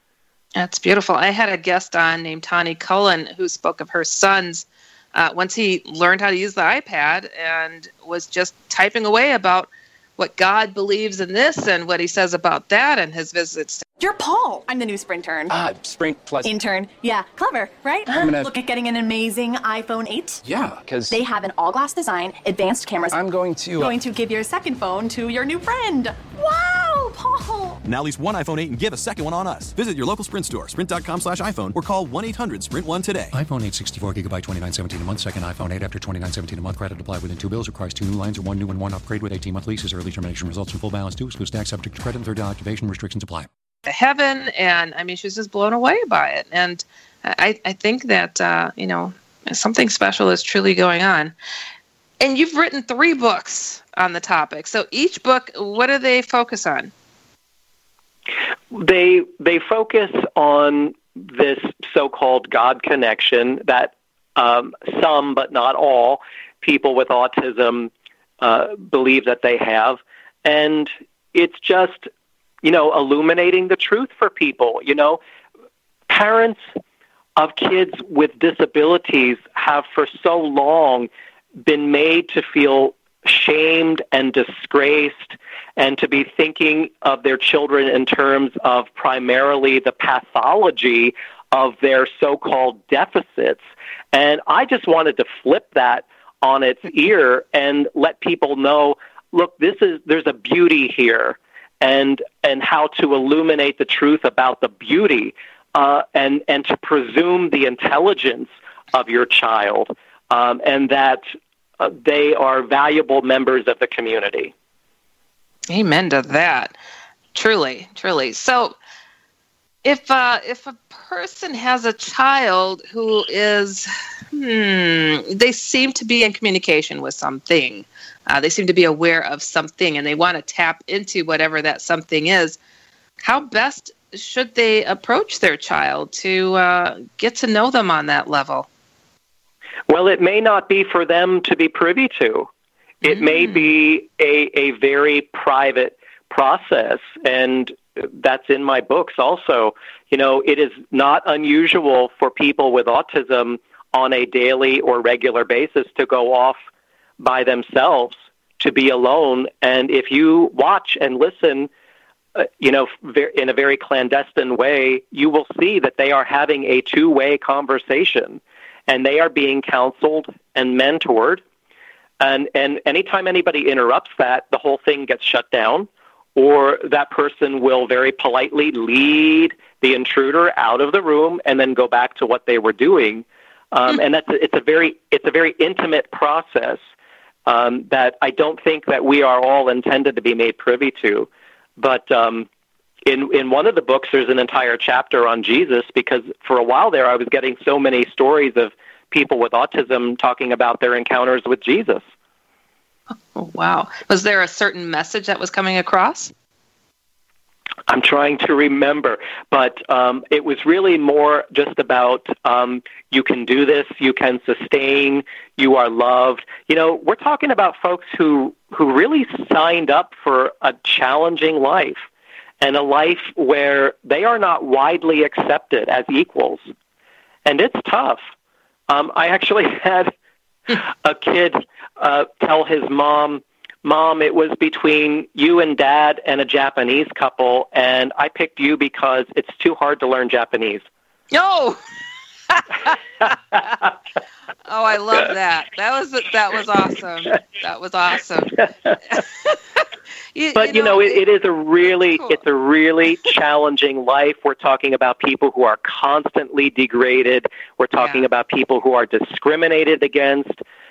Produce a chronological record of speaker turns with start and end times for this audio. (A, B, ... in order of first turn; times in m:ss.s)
0:00.6-0:13.8 A
0:14.0-0:15.6 B
0:15.5-0:16.5 C
0:16.4-0:20.4 B
0:18.2-0:18.5 C
0:20.4-0:21.2 C
0:21.1-0:23.2 B
0:23.1-0:24.0 C
0:23.8-0:27.8 B
0:27.8-0:33.3 D
0:33.3-0:43.5 E
0:43.8-0:51.3 A
0:52.2-0:56.9 A
0:58.7-1:12.1 F
1:12.6-1:15.2 F
1:16.1-1:16.6 F
1:17.4-1:21.1 F
1:21.6-1:51.2 F
1:51.8-1:54.5 F
1:55.7-1:56.7 A
1:57.3-1:58.7 A
1:59.8-2:12.6 A
2:13.2-2:18.7 A
2:19.9-2:22.5 F
2:23.0-2:36.6 F
2:23.0-2:23.7 A
2:37.2-2:41.7 F
2:42.4-2:51.4 F
2:52.2-3:06.8 F
3:07.4-3:12.5 F
3:13.0-3:22.0 F
3:23.3-3:26.3 A
3:27.9-3:42.0 F
3:42.6-3:46.6 F
3:47.4-3:48.2 F
3:48.9-3:50.1 F
3:50.7-4:00.8 F
4:01.3-4:01.8 A
4:02.5-4:02.9 A
4:04.7-4:09.8 A
4:10.3-4:11.2 A
4:10.5-4:20.6 F
4:18.0-4:18.2 A